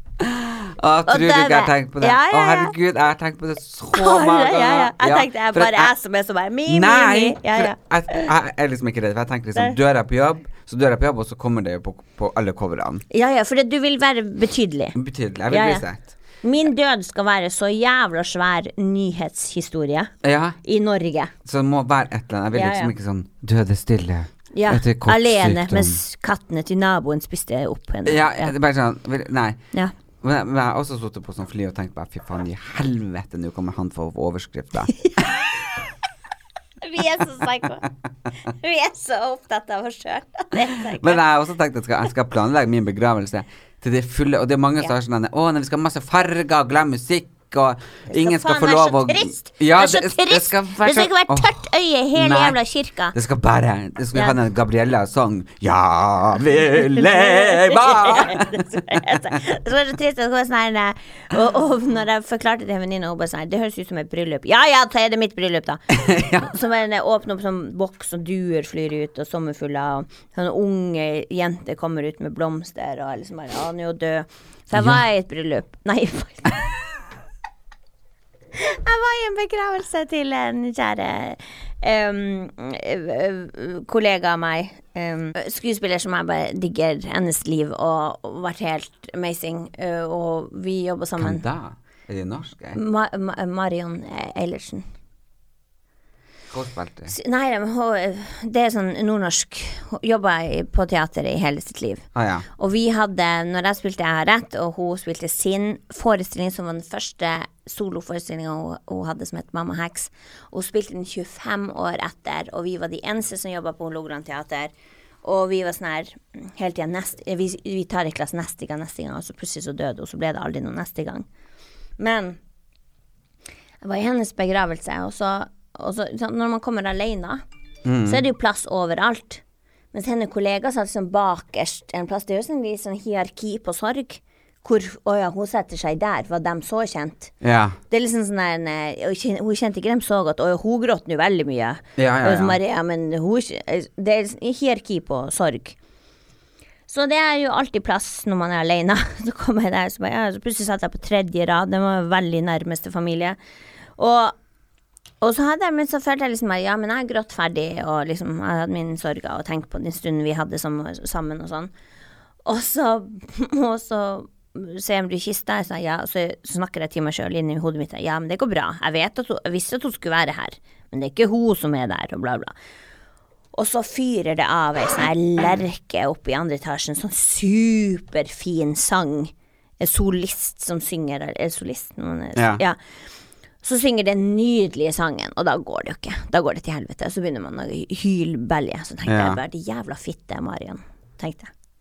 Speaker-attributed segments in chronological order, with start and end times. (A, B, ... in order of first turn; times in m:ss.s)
0:00.2-0:05.9 A
0:01.1-0:02.7 B
0:03.9-0:08.3 B
0:06.7-0:13.0 A
0:13.1-0:15.0 B
0:15.0-0:16.1 A
0:15.5-0:15.8 B
0:16.4-0:20.1 B
0:20.2-0:20.6 A
0:20.6-0:21.3 B
0:21.4-0:26.0 A
0:22.5-0:22.9 B
0:24.5-0:28.5 B
0:28.0-0:29.6 A
0:30.2-0:34.9 A
0:36.8-0:37.9 B
0:38.5-0:41.2 B
0:40.8-0:51.6 A
0:48.1-0:53.2 B
0:52.2-0:52.6 A
0:53.1-0:58.8 A
0:56.8-1:16.6 B
1:05.9-1:06.5 A
1:14.7-1:15.0 A
1:18.6-1:31.4 B
1:31.2-1:32.8 A
1:32.7-1:34.9 B
1:36.5-1:37.1 A
1:37.1-1:42.0 B
1:42.2-1:42.5 A
1:42.6-1:54.7 B
1:55.2-2:01.3 B
2:02.0-2:02.4 B
2:03.8-2:07.4 B
2:07.8-2:08.2 A
2:08.0-2:09.4 B
2:09.9-2:17.3 B
2:17.4-2:17.8 A
2:17.9-2:25.8 B
2:22.0-2:22.6 A
2:26.9-2:33.4 B
2:34.0-2:34.4 B
2:35.2-2:41.7 B
2:42.4-2:52.5 B
2:53.5-3:02.8 B
3:02.4-3:02.6 A
3:03.6-3:11.5 B
3:09.1-3:09.4 A